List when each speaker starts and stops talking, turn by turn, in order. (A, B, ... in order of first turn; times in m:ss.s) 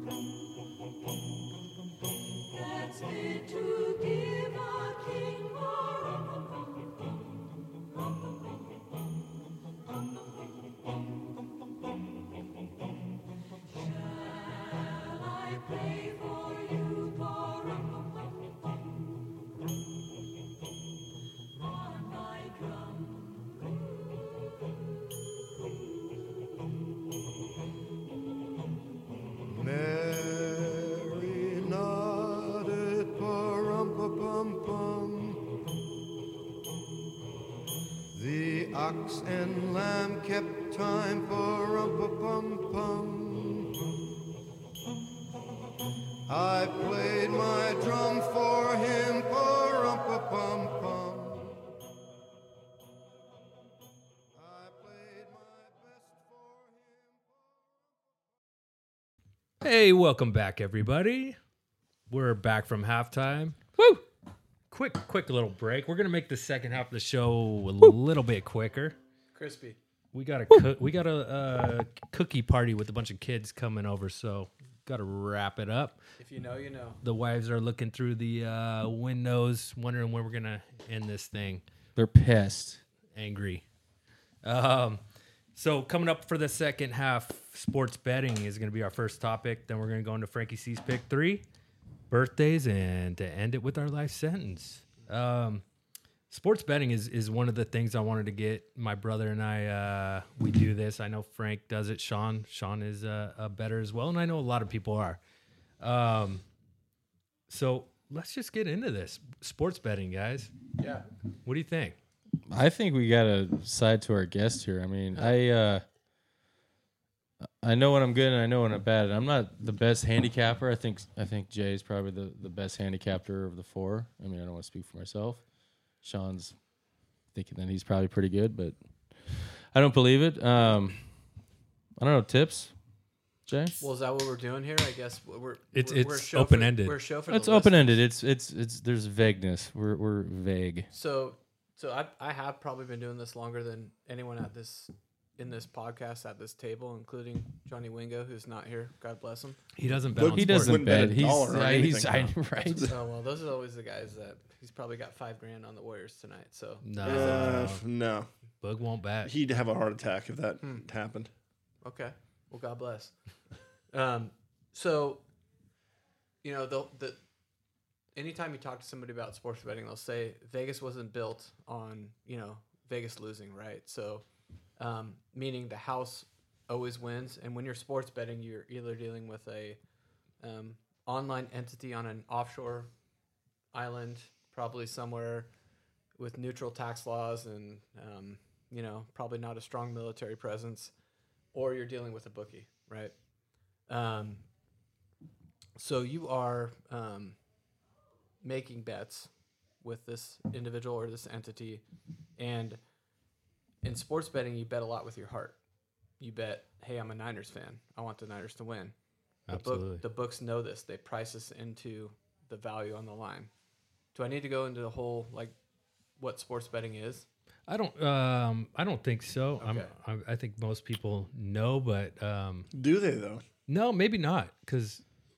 0:29.5-0:35.4 A
0:38.1-0:43.8 A
0:46.3-0:51.5 A
0:54.4-0:57.2 A
0:59.6-1:01.4 B
1:02.1-1:03.6 B
1:03.8-1:04.0 C
1:04.7-1:09.0 B
1:09.3-1:09.8 D
1:10.1-1:16.0 B
1:16.2-1:17.0 D
1:17.0-1:21.6 B
1:22.0-1:22.8 C
1:23.1-1:23.6 B
1:24.4-1:25.0 B
1:25.6-1:31.4 B
1:32.1-1:35.6 B
1:36.3-1:45.2 B
1:45.8-1:46.4 B
1:47.5-1:50.5 B
1:50.8-1:51.1 D
1:51.4-1:52.0 B
1:52.5-1:55.8 C
1:57.6-2:05.4 C
2:06.0-2:06.6 C
2:07.3-2:08.8 C
2:09.4-2:11.0 C
2:12.0-2:12.7 C
2:13.5-2:13.8 C
2:13.8-2:18.0 D
2:15.7-2:17.0 B
2:17.3-2:20.9 C
2:20.9-2:29.6 D
2:29.7-2:31.0 B
2:30.1-2:32.9 E
2:30.2-2:32.9 C
2:32.8-2:37.6 D
2:36.8-2:37.8 B
2:37.0-2:38.3 E
2:38.6-2:39.3 B
2:39.2-2:41.3 E
2:41.8-2:43.1 D
2:43.9-2:45.2 D
2:46.4-2:47.2 D
2:48.1-2:54.2 D
2:54.8-2:59.8 D
3:00.4-3:02.9 D
3:03.7-3:05.5 D
3:06.2-3:10.9 D
3:11.5-3:13.1 D
3:13.9-3:14.4 D
3:15.8-3:17.4 D
3:18.4-3:19.3 D
3:19.8-3:21.8 D
3:22.4-3:22.8 D
3:23.8-3:25.6 D
3:26.2-3:28.9 D
3:29.5-3:30.0 B
3:29.5-3:33.5 D
3:34.1-3:35.6 D
3:36.2-3:37.3 D
3:37.7-3:42.7 B
3:39.6-3:39.9 D
3:42.7-3:43.4 E
3:43.7-3:45.0 B